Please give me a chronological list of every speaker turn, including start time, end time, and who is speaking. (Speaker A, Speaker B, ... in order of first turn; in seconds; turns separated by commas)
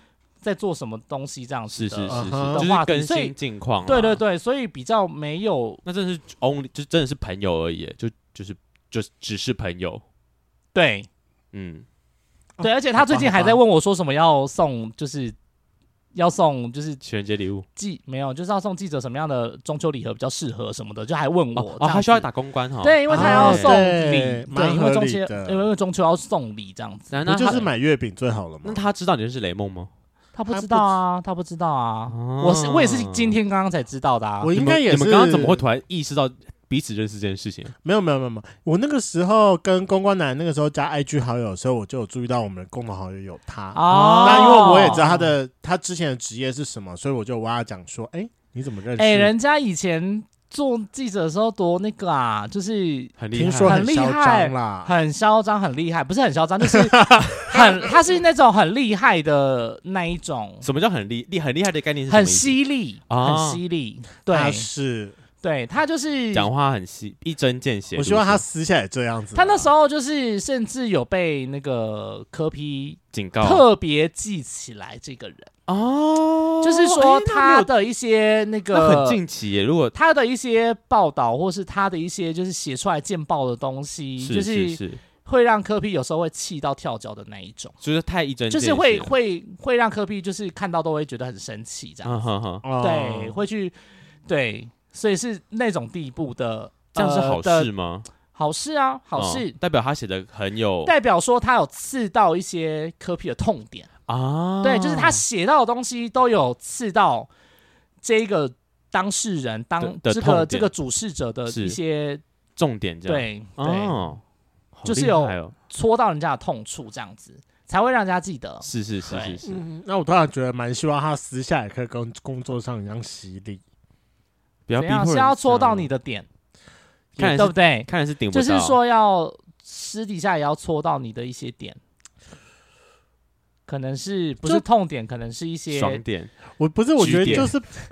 Speaker A: 0.4-5.8, Speaker B: 1.7-4.2, Speaker C: 2.1-2.6, Speaker B: 5.8-10.0, Speaker A: 10.7-11.1, Speaker B: 11.5-11.8, Speaker C: 12.6-13.6, Speaker A: 12.6-15.3, Speaker A: 16.1-17.0, Speaker B: 17.0-17.7, Speaker A: 17.8-22.3, Speaker B: 21.6-23.8, Speaker A: 22.8-27.1, Speaker C: 23.1-25.7, Speaker B: 27.1-27.7, Speaker C: 27.3-28.9, Speaker B: 28.6-29.9, Speaker A: 30.4-34.5, Speaker C: 30.5-31.0, Speaker B: 32.1-33.4, Speaker C: 34.4-35.6, Speaker B: 34.5-37.7, Speaker C: 37.8-49.3, Speaker A: 43.7-45.3, Speaker B: 43.9-45.1, Speaker A: 49.0-60.6, Speaker B: 53.2-53.8, Speaker C: 53.3-54.9, Speaker C: 56.7-57.9, Speaker B: 60.6-63.6, Speaker A: 62.1-64.7, Speaker C: 64.3-65.2, Speaker A: 65.4-66.5, Speaker B: 66.3-68.4, Speaker C: 68.0-69.7, Speaker A: 69.3-75.5, Speaker B: 73.1-73.7, Speaker B: 75.7-77.7, Speaker A: 76.6-79.2, Speaker B: 78.7-80.0, Speaker A: 79.9-87.8, Speaker B: 84.2-85.0, Speaker B: 87.8-89.1, Speaker A: 88.5-92.1, Speaker B: 92.0-92.6, Speaker C: 92.6-93.4, Speaker A: 92.8-93.8, Speaker A: 94.3-97.7, Speaker B: 96.9-98.1, Speaker A: 98.3-99.6, Speaker B: 99.2-100.9, Speaker A: 100.8-103.9, Speaker B: 104.1-105.2, Speaker A: 104.6-107.3, Speaker A: 108.0-112.2, Speaker B: 109.8-110.7, Speaker B: 111.5-111.8, Speaker B: 112.6-114.2, Speaker A: 113.1-114.0, Speaker B: 114.8-115.5, Speaker A: 114.8-119.4, Speaker B: 118.6-119.6, Speaker C: 119.4-123.6, Speaker B: 124.7-125.9, Speaker A: 124.8-126.3, Speaker B: 127.2-128.8, Speaker A: 127.2-131.8, Speaker A: 133.7-136.0, Speaker B: 135.7-136.3, Speaker C: 136.6-137.7, Speaker B: 137.0-137.5